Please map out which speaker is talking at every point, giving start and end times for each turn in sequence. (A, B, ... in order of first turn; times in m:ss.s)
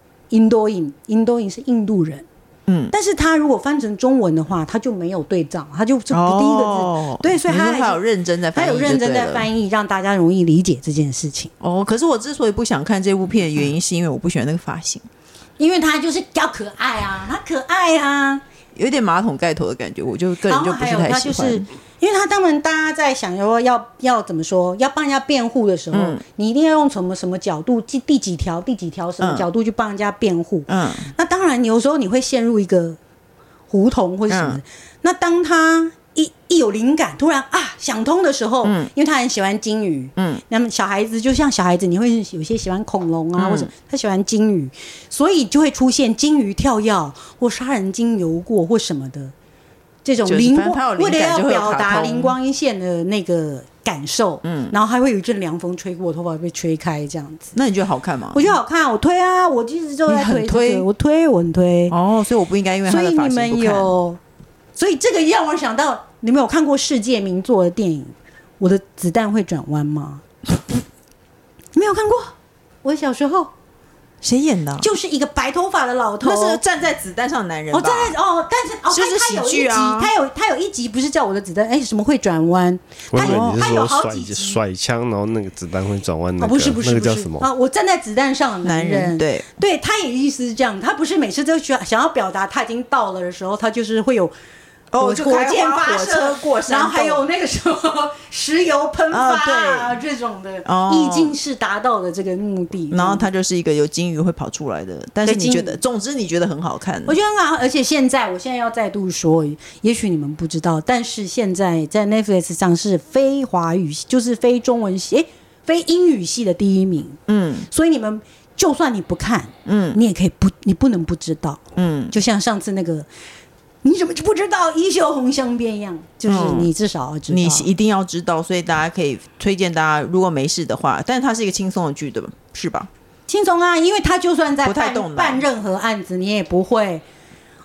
0:00.3-0:02.2 A
0:02.7-0:02.9 B
0:02.9-0:08.0 A
0:06.1-0:09.5 B
0:08.5-0:11.5 A
0:11.6-0:15.0 B
0:15.6-0:18.4 A
0:18.7-0:21.6 B
0:20.5-0:33.0 A
0:25.9-0:26.2 B
0:29.2-0:29.5 B
0:30.7-0:31.1 B
0:33.7-0:49.3 A
0:34.3-0:34.6 B
0:38.6-0:38.9 B
0:40.2-0:40.4 B
0:43.4-0:43.7 B
0:50.0-0:57.5 A
0:50.2-0:52.3 B
0:54.4-0:54.7 B
0:57.5-0:58.5 B
0:58.3-1:01.9 A
1:00.1-1:00.8 B
1:01.9-1:03.9 B
1:02.8-1:04.2 A
1:04.8-1:10.2 A
1:11.7-1:13.5 A
1:14.2-1:14.9 B
1:14.8-1:16.6 A
1:16.2-1:18.2 B
1:17.7-1:24.6 A
1:18.9-1:20.1 B
1:23.1-1:27.5 C
1:23.1-1:23.7 B
1:26.4-1:34.3 A
1:28.6-1:29.4 B
1:34.9-1:37.2 B
1:35.0-1:43.2 A
1:39.1-1:40.0 B
1:40.6-1:41.3 B
1:42.9-1:47.1 B
1:45.2-1:45.8 A
1:47.1-1:57.2 A
1:57.3-1:57.7 B
1:57.7-2:03.1 A
1:59.6-2:00.0 B
2:01.8-2:02.1 B
2:03.8-2:07.7 A
2:06.3-2:06.7 B
2:07.3-2:12.9 B
2:13.3-2:17.0 A
2:14.6-2:15.4 B